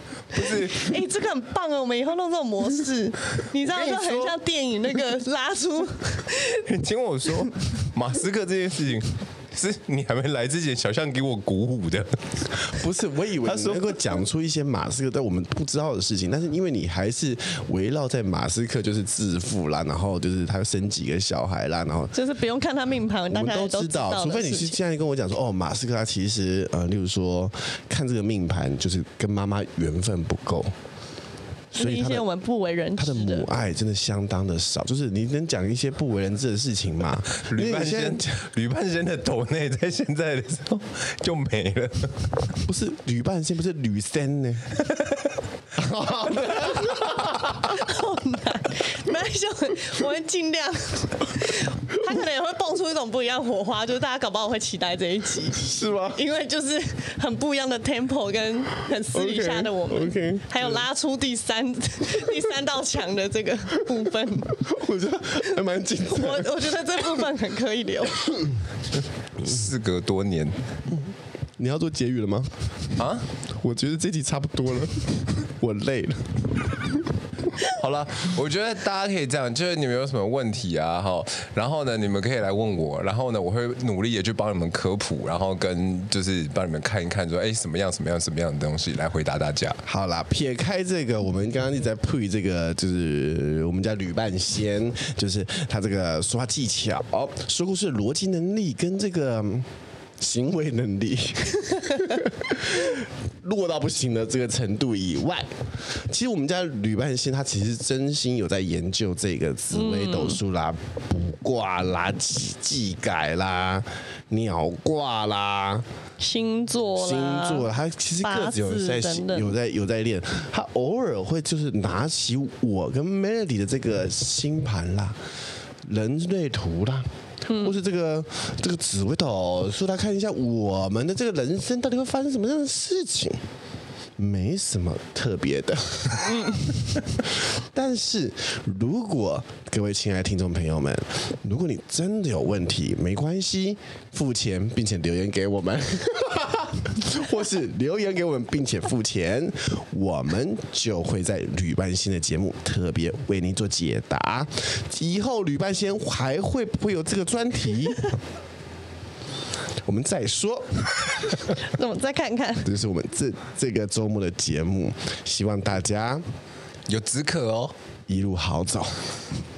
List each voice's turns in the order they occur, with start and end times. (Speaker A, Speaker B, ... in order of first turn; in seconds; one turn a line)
Speaker A: 0.3-0.9
Speaker B: 0.3-6.7
Speaker A: 3.7-4.3
Speaker A: 6.5-12.5
Speaker C: 12.5-22.1
Speaker A: 13.4-14.2
Speaker B: 22.1-24.8
Speaker C: 23.3-30.7
Speaker C: 31.7-32.3
Speaker B: 31.7-33.5
Speaker C: 33.0-38.3
Speaker A: 37.3-42.5
Speaker C: 42.6-44.7
Speaker A: 44.8-45.3
Speaker C: 45.7-47.7
Speaker B: 47.6-64.6
Speaker C: 55.5-56.2
Speaker C: 59.1-60.8
Speaker C: 64.5-67.2
Speaker B: 66.0-68.2
Speaker A: 69.3-70.6
Speaker C: 70.9-76.9
Speaker A: 73.0-73.3
Speaker A: 77.6-89.8
Speaker C: 89.8-99.7
Speaker C: 100.2-115.8
Speaker B: 109.7-110.4
Speaker B: 116.2-117.7
Speaker C: 117.0-125.2
Speaker B: 118.2-119.5
Speaker C: 125.8-133.4
Speaker B: 127.5-127.8
Speaker C: 134.2-158.2
Speaker B: 136.2-136.7
Speaker C: 159.8-161.2
Speaker B: 161.5-162.7
Speaker C: 162.6-166.2
Speaker A: 166.9-167.7
Speaker C: 168.1-169.1